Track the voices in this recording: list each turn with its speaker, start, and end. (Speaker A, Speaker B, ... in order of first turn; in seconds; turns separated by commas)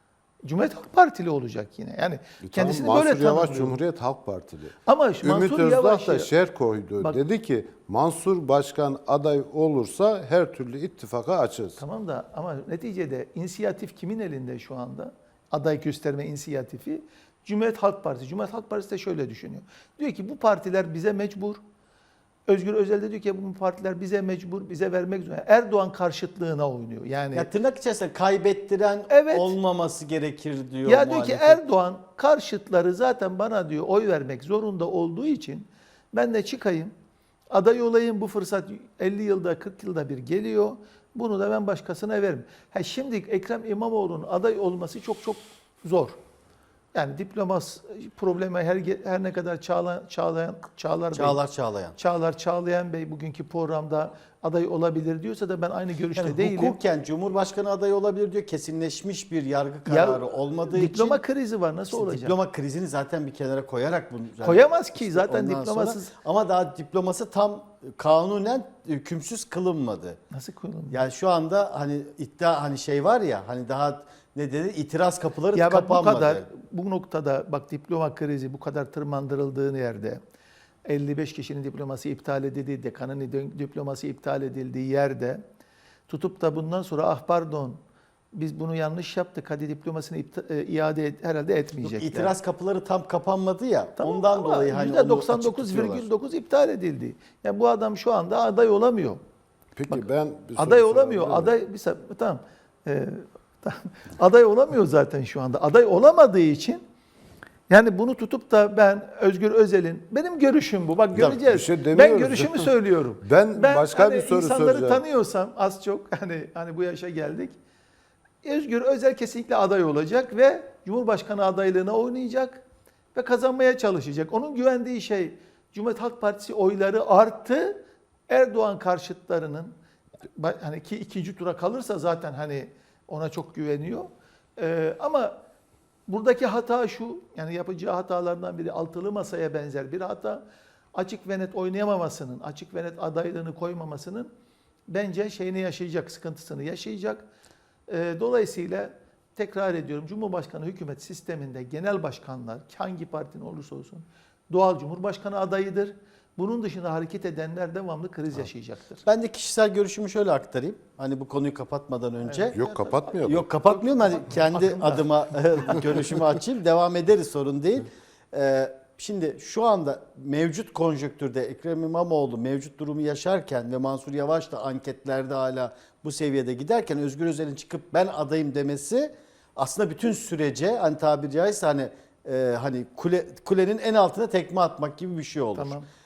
Speaker A: 0.4-3.8, Speaker B: 2.4-11.8, Speaker A: 4.9-6.3, Speaker A: 11.8-21.6, Speaker A: 22.5-27.5, Speaker C: 27.3-31.6, Speaker A: 29.1-29.6, Speaker A: 30.9-36.9, Speaker A: 37.5-46.2, Speaker A: 46.9-51.4, Speaker C: 51.1-52.0, Speaker A: 52.0-56.8, Speaker C: 56.1-61.2, Speaker A: 59.9-62.4, Speaker C: 61.9-70.2, Speaker A: 64.4-66.1, Speaker A: 70.3-71.0, Speaker C: 70.9-76.5, Speaker A: 75.5-80.2, Speaker A: 80.9-85.4, Speaker A: 86.1-87.8, Speaker A: 88.3-92.4, Speaker C: 91.8-96.1, Speaker A: 94.0-99.2, Speaker B: 99.8-101.5, Speaker A: 99.9-106.8, Speaker A: 107.7-117.6, Speaker C: 111.2-111.4, Speaker B: 111.3-115.0, Speaker A: 118.4-122.6, Speaker A: 123.2-129.7, Speaker A: 130.4-135.3, Speaker A: 136.1-140.4, Speaker A: 140.9-144.3, Speaker A: 144.9-147.3, Speaker A: 147.9-159.1, Speaker C: 159.1-162.6, Speaker A: 162.2-166.2, Speaker B: 162.5-163.5, Speaker C: 163.2-185.8, Speaker A: 185.6-185.9